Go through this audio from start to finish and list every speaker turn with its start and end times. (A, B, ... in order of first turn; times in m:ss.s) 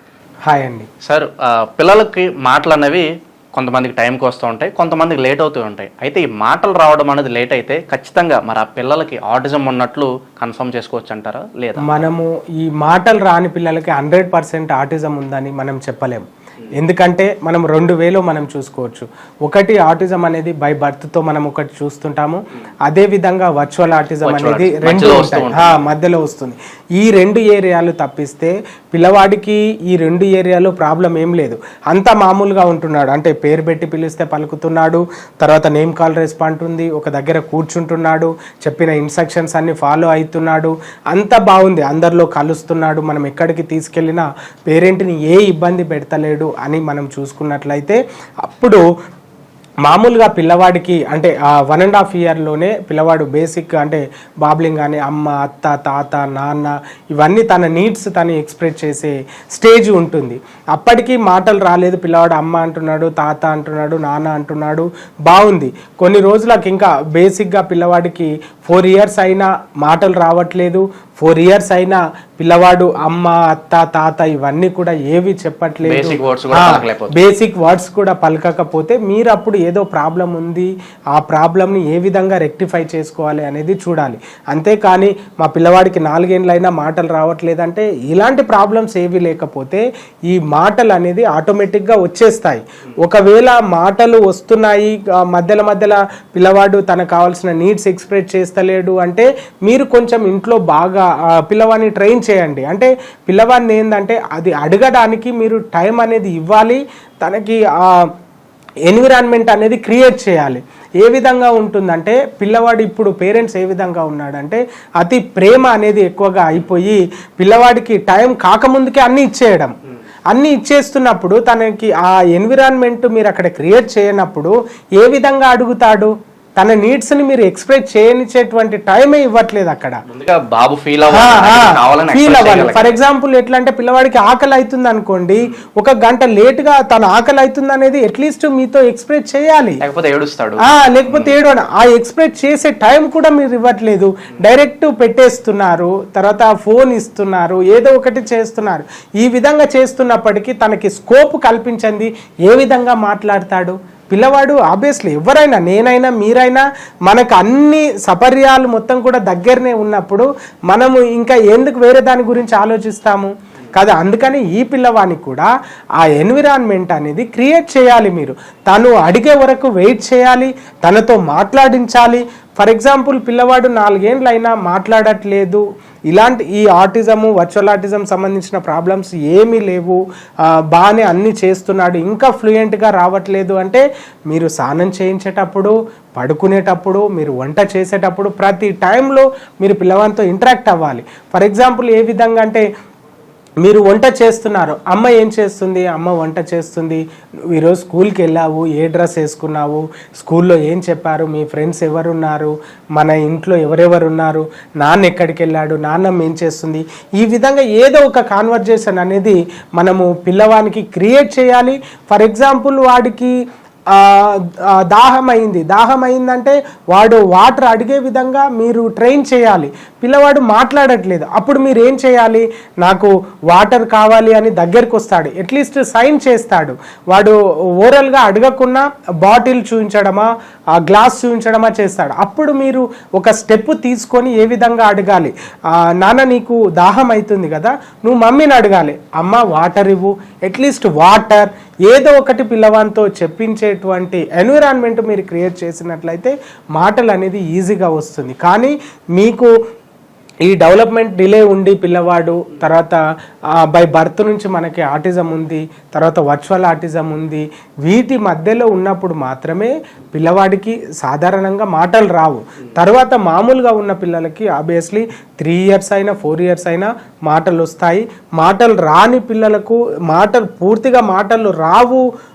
0:00.5-0:00.9 A
0:01.1-0:12.1 B
0:11.8-0:16.3 A
0:16.8-0:48.8 A
0:24.2-0:25.8 B
0:49.8-1:47.6 A
1:15.8-1:17.2 B
1:48.9-1:59.7 A
2:00.3-2:10.0 A
2:10.1-2:13.0 B
2:11.1-2:19.8 A
2:19.8-2:21.4 B
2:20.7-2:45.5 A
2:46.0-3:00.0 A
3:00.7-3:12.6 A
3:13.6-3:17.0 A
3:17.5-3:33.3 A
3:34.0-3:34.3 A
3:34.9-3:55.3 A
3:56.0-4:09.5 A
4:10.5-4:13.0 A
4:13.7-4:32.0 A